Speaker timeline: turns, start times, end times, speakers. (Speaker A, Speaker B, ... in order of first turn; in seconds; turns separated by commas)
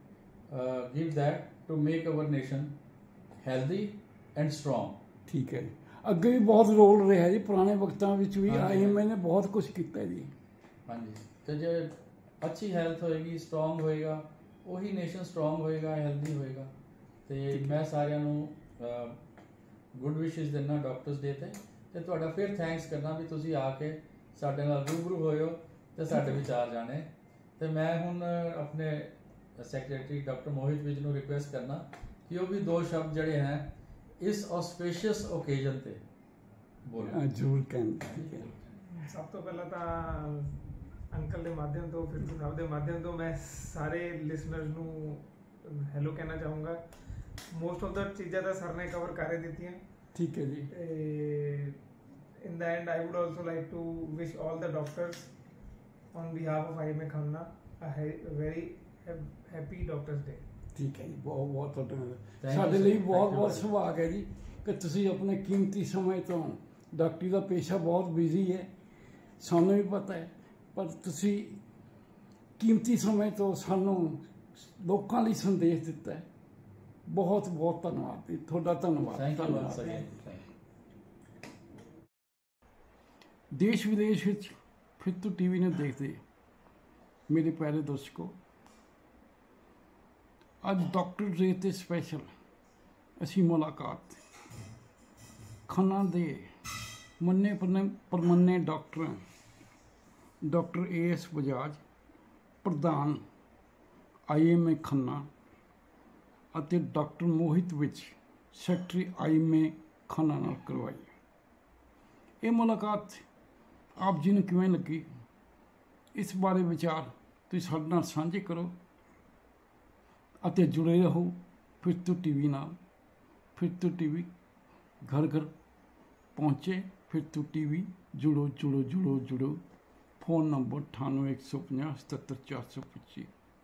Speaker A: 0.5-2.7, Speaker A: 3.4-5.0, Speaker B: 5.3-10.3, Speaker A: 8.5-9.1, Speaker A: 10.9-16.7, Speaker A: 17.3-19.2, Speaker A: 19.9-36.0, Speaker B: 26.1-26.4, Speaker A: 36.9-37.2, Speaker B: 37.0-38.5, Speaker A: 38.1-38.8, Speaker C: 38.9-46.8, Speaker C: 47.5-49.8, Speaker B: 50.1-50.7, Speaker C: 50.7-51.8, Speaker C: 52.4-55.3, Speaker C: 56.1-60.4, Speaker B: 60.8-68.7, Speaker A: 62.4-63.7, Speaker B: 69.4-71.6, Speaker B: 72.6-76.3, Speaker B: 77.1-80.0, Speaker A: 79.1-80.4, Speaker B: 83.5-86.2, Speaker B: 87.3-88.3, Speaker B: 90.6-92.3, Speaker B: 93.2-94.2, Speaker B: 95.7-96.5, Speaker B: 97.2-99.2, Speaker B: 100.4-101.8, Speaker B: 102.6-103.2, Speaker B: 104.3-105.3, Speaker B: 106.5-111.1, Speaker B: 112.4-113.3, Speaker B: 114.0-115.1, Speaker B: 116.1-118.7, Speaker B: 120.4-122.8, Speaker B: 123.5-124.3, Speaker B: 125.0-125.5, Speaker B: 126.4-129.6, Speaker B: 130.2-133.3